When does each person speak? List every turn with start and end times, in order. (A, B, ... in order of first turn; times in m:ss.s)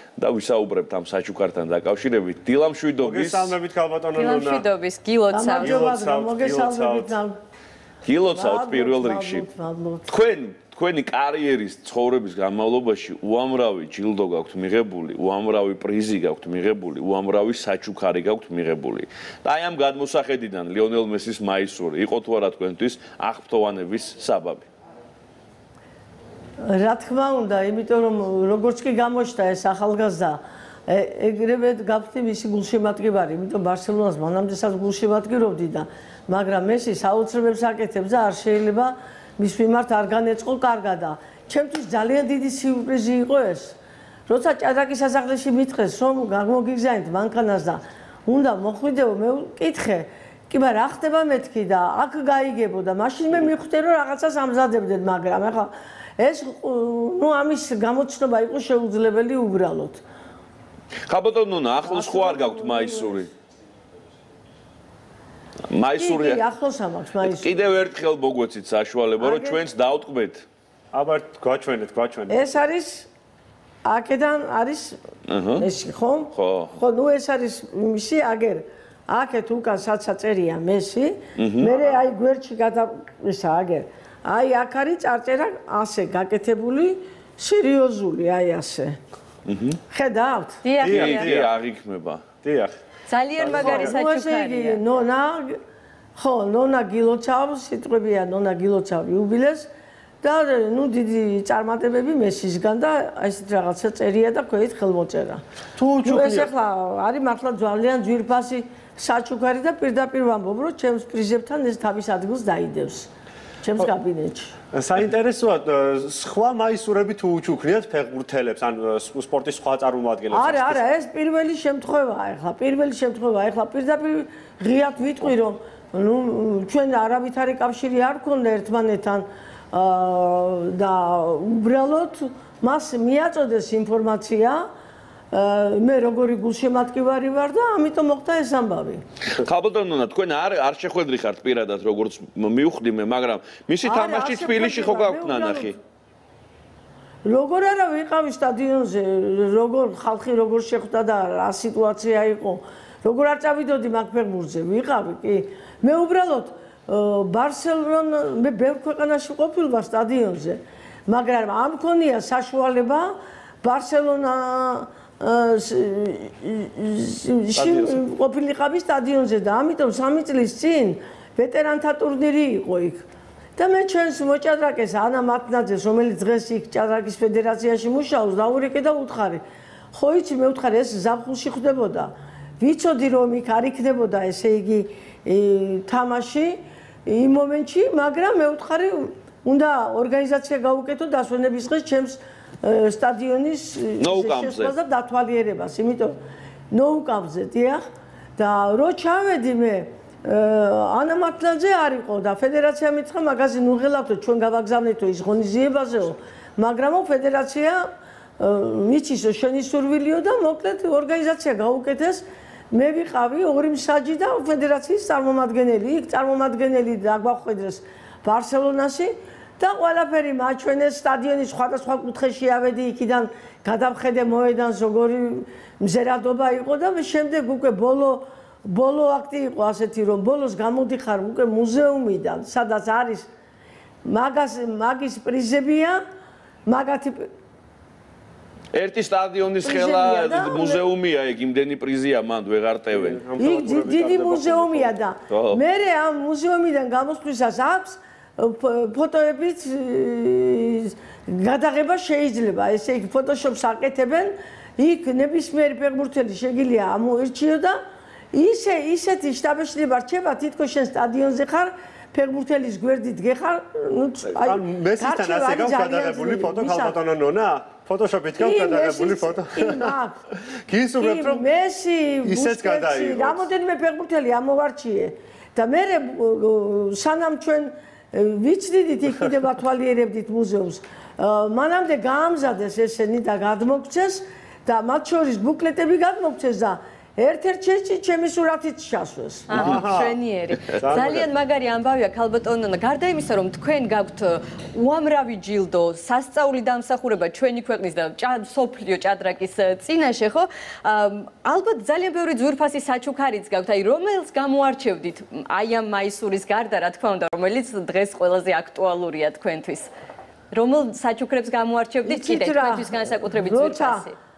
0:00.2-0:03.6 A
0:03.0-0:04.6 B
0:04.1-0:05.8 C
0:05.3-0:07.3 D
0:05.5-0:07.1 B
0:08.0-0:09.4 A
0:08.3-0:10.1 D
0:10.1-0:24.6 A
0:26.6-0:43.8 D
0:44.3-1:00.0 D
1:01.1-1:03.3 A
1:01.8-1:03.3 D
1:05.7-1:06.4 A
1:06.0-1:07.7 D
1:07.2-1:10.4 A
1:09.2-1:09.6 D
1:10.9-1:12.5 B
1:12.3-1:13.1 D
1:13.8-1:15.0 D
1:15.3-1:15.7 A
1:15.5-1:29.0 D
1:16.3-1:16.8 A
1:21.4-1:21.7 A
1:29.5-1:29.8 A
1:29.9-1:30.6 D
1:30.6-1:31.3 C
1:30.8-1:31.5 B
1:30.8-1:32.2 A
1:32.4-1:32.8 B
1:33.1-1:34.8 C
1:33.4-1:34.0 B
1:33.5-1:35.6 D
1:36.2-1:39.7 D
1:40.2-1:45.4 D
1:45.8-1:46.5 B
1:46.0-1:53.1 D
1:53.6-1:54.5 D
1:54.7-2:00.8 B
2:00.3-2:14.7 D
2:15.3-2:19.0 D
2:19.3-2:25.8 A
2:23.8-2:25.8 D
2:27.2-2:53.0 D
2:47.6-2:48.0 B
2:53.6-3:16.2 D
3:14.0-3:14.7 A
3:16.7-3:17.8 D
3:18.4-3:27.9 D
3:28.4-3:53.3 D
3:54.0-3:56.0 D
3:56.6-3:57.3 D
3:58.7-4:03.2 A
3:59.6-4:00.8 D
4:02.9-4:04.9 B
4:03.4-4:17.8 D
4:05.3-4:05.6 A
4:18.3-4:27.0 D
4:24.4-4:29.9 B
4:28.4-4:30.2 D
4:30.7-4:31.4 B
4:31.0-4:49.6 D
4:32.2-4:33.4 B
4:49.5-5:09.9 C
4:49.5-4:50.2 B
4:50.8-4:51.3 B
5:10.5-5:14.2 C
5:12.0-5:14.0 D